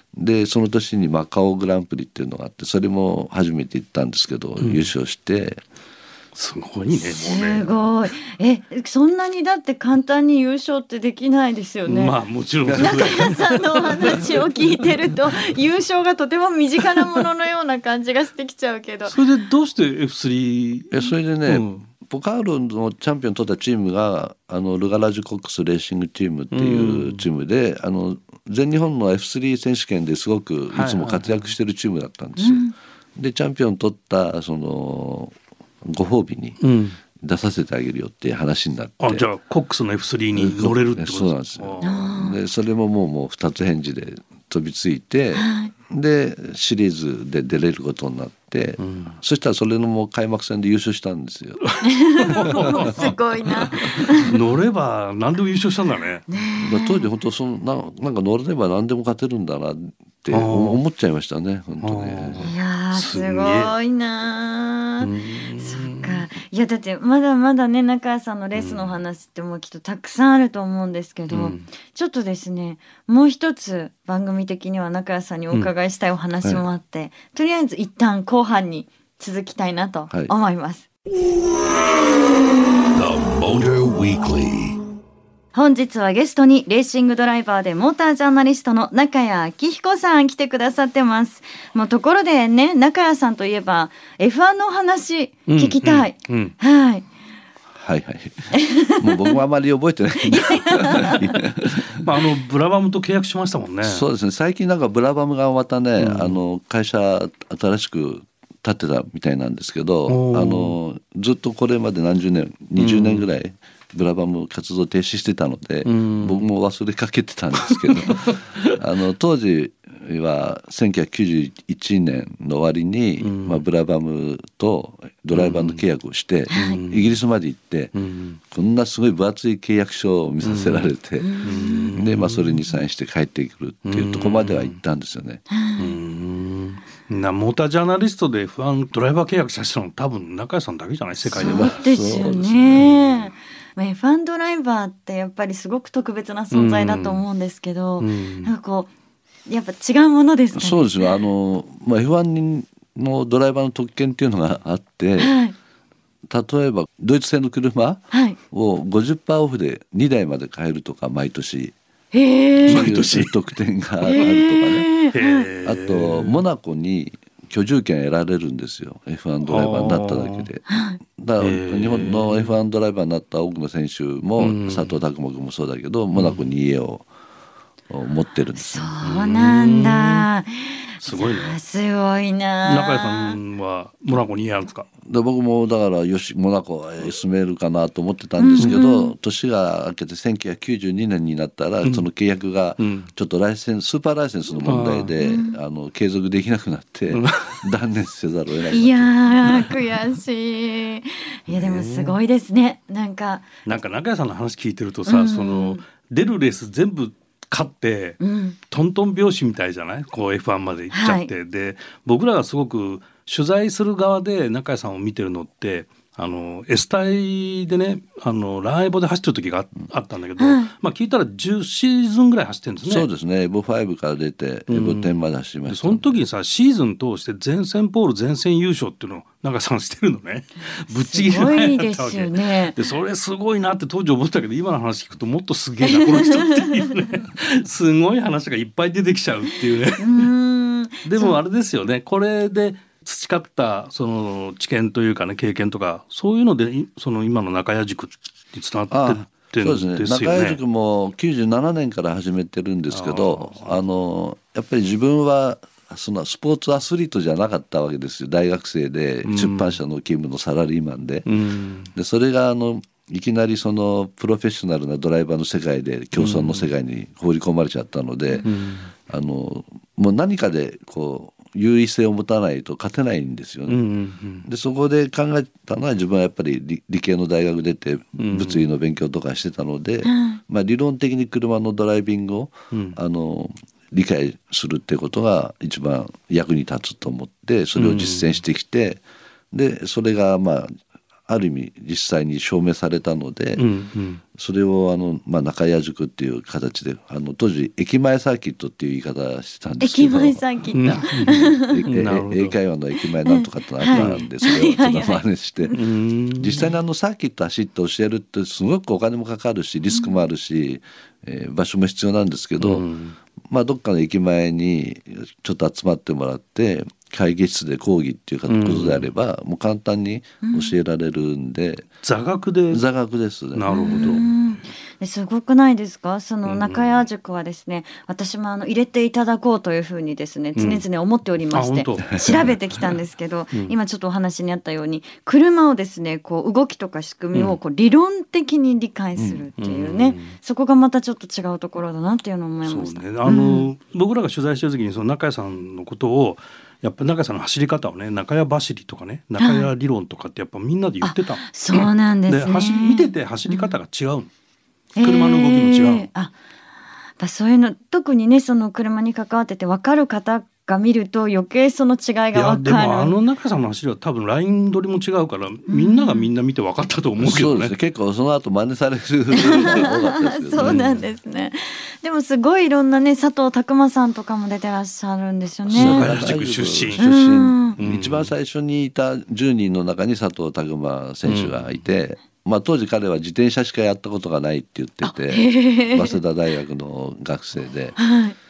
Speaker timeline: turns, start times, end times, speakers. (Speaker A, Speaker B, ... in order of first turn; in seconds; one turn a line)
Speaker A: 0.2-5.6
Speaker B: 4.6-4.9
Speaker B: 6.3-7.8
Speaker C: 6.9-12.2
Speaker B: 11.9-14.8
Speaker A: 12.6-13.3
Speaker C: 12.8-19.1
Speaker B: 19.1-21.9
Speaker A: 20.9-32.6
Speaker B: 26.5-27.2
Speaker B: 30.7-31.5
Speaker C: 32.4-32.7
Speaker A: 33.2-36.6
Speaker B: 36.6-37.0
Speaker A: 37.2-39.3
Speaker B: 39.0-42.0
Speaker A: 40.3-51.7
Speaker C: 41.8-42.4
Speaker C: 45.4-45.7
Speaker B: 48.8-49.2
Speaker B: 51.6-56.3
Speaker C: 51.8-54.3
Speaker A: 52.4-54.1
Speaker C: 56.3-57.1
Speaker A: 56.6-62.5
Speaker B: 60.3-60.8
Speaker B: 61.8-63.8
Speaker C: 62.4-80.9
Speaker B: 65.0-66.3
Speaker B: 68.5-69.0
Speaker B: 71.3-71.6
Speaker B: 82.9-84.8
Speaker C: 85.5-97.1
Speaker B: 95.5-96.5
Speaker A: 97.8-102.2
Speaker C: 98.5-99.4
Speaker C: 100.3-101.2
Speaker B: 101.9-104.0
Speaker A: 103.8-127.9
Speaker B: 106.0-106.4
Speaker B: 110.1-110.8
Speaker B: 112.8-113.3
Speaker B: 115.8-116.5
Speaker B: 117.6-118.7
Speaker B: 123.2-123.6
Speaker B: 125.3-125.8
Speaker C: 126.5-126.8
Speaker B: 126.5-127.2
Speaker B: 128.0-128.4
Speaker A: 128.5-135.4
Speaker B: 130.4-130.9
Speaker C: 131.2-131.9
Speaker B: 131.4-132.7
Speaker B: 133.8-134.8
Speaker C: 135.5-136.0
Speaker B: 135.8-141.7
Speaker C: 141.3-148.9
Speaker A: 141.3-143.1
Speaker B: 146.5-147.2
Speaker B: 148.0-148.5
Speaker C: 149.5-151.1
Speaker A: 150.6-155.4
Speaker C: 155.2-155.5
Speaker A: 156.3-161.8
Speaker C: 158.1-158.4
Speaker C: 162.1-162.9
Speaker A: 162.6-164.9
Speaker B: 162.7-163.4
Speaker C: 164.0-165.5
Speaker B: 165.1-166.4
Speaker A: 165.6-177.1
Speaker B: 169.4-170.5
Speaker C: 170.7-171.0
Speaker B: 171.4-172.5
Speaker B: 174.4-175.0
Speaker B: 176.1-176.4
Speaker A: 177.9-178.9
Speaker C: 178.6-183.4
Speaker B: 179.0-180.3
Speaker B: 181.0-181.6
Speaker B: 182.7-184.9
Speaker A: 185.0-199.7
Speaker C: 188.4-189.1
Speaker B: 192.8-193.1
Speaker B: 194.6-195.1
Speaker C: 195.2-195.6
Speaker B: 197.1-197.6
Speaker C: 198.7-203.5
Speaker B: 201.5-202.2
Speaker B: 203.7-223.1
Speaker C: 205.1-205.8
Speaker C: 208.2-208.6
Speaker C: 210.9-211.3
Speaker C: 220.4-220.7
Speaker A: 222.9-226.1
Speaker B: 224.7-225.1
Speaker B: 225.7-240.3
Speaker C: 230.9-232.8
Speaker C: 235.9-236.9
Speaker C: 240.0-241.4
Speaker B: 241.0-250.6
Speaker A: 248.9-261.3
Speaker B: 252.9-253.8
Speaker B: 259.2-259.8
Speaker B: 261.3-261.9
Speaker A: 261.9-273.8
Speaker B: 266.2-266.7
Speaker B: 268.4-268.9
Speaker B: 273.7-274.5
Speaker A: 274.4-290.7
Speaker B: 278.2-278.6
Speaker C: 280.1-280.4
Speaker B: 282.7-283.0
Speaker B: 287.8-288.3
Speaker A: 291.3-293.7
Speaker B: 293.6-294.2
Speaker A: 294.3-300.4
Speaker C: 299.8-301.9
Speaker B: 300.8-302.6
Speaker A: 301.2-305.8
Speaker C: 303.3-305.8
Speaker B: 303.9-304.3
Speaker B: 305.7-306.7
Speaker A: 306.4-312.9
Speaker B: 312.6-313.2
Speaker A: 313.5-321.9
Speaker B: 318.5-319.1
Speaker C: 320.4-320.8
Speaker B: 322.0-322.8
Speaker A: 322.7-324.3
Speaker B: 323.5-324.4
Speaker C: 323.7-343.7
Speaker B: 326.4-327.0
Speaker B: 330.6-330.8
Speaker B: 331.5-332.5
Speaker A: 339.2-339.5
Speaker B: 339.6-340.4
Speaker B: 342.6-354.3
Speaker C: 349.4-349.7
Speaker C: 351.0-353.7
Speaker C: 355.0-356.4
Speaker B: 355.0-356.1
Speaker C: 357.2-363.1
Speaker B: 362.3-367.7
Speaker C: 365.7-366.3
Speaker A: 367.2-370.9
Speaker C: 369.4-376.1
Speaker B: 369.5-369.9
Speaker B: 370.6-371.0
Speaker B: 375.7-377.1
Speaker A: 375.7-388.0
Speaker C: 377.0-377.8
Speaker B: 377.8-378.3
Speaker B: 381.3-381.6
Speaker C: 385.0-386.2
Speaker C: 388.0-388.4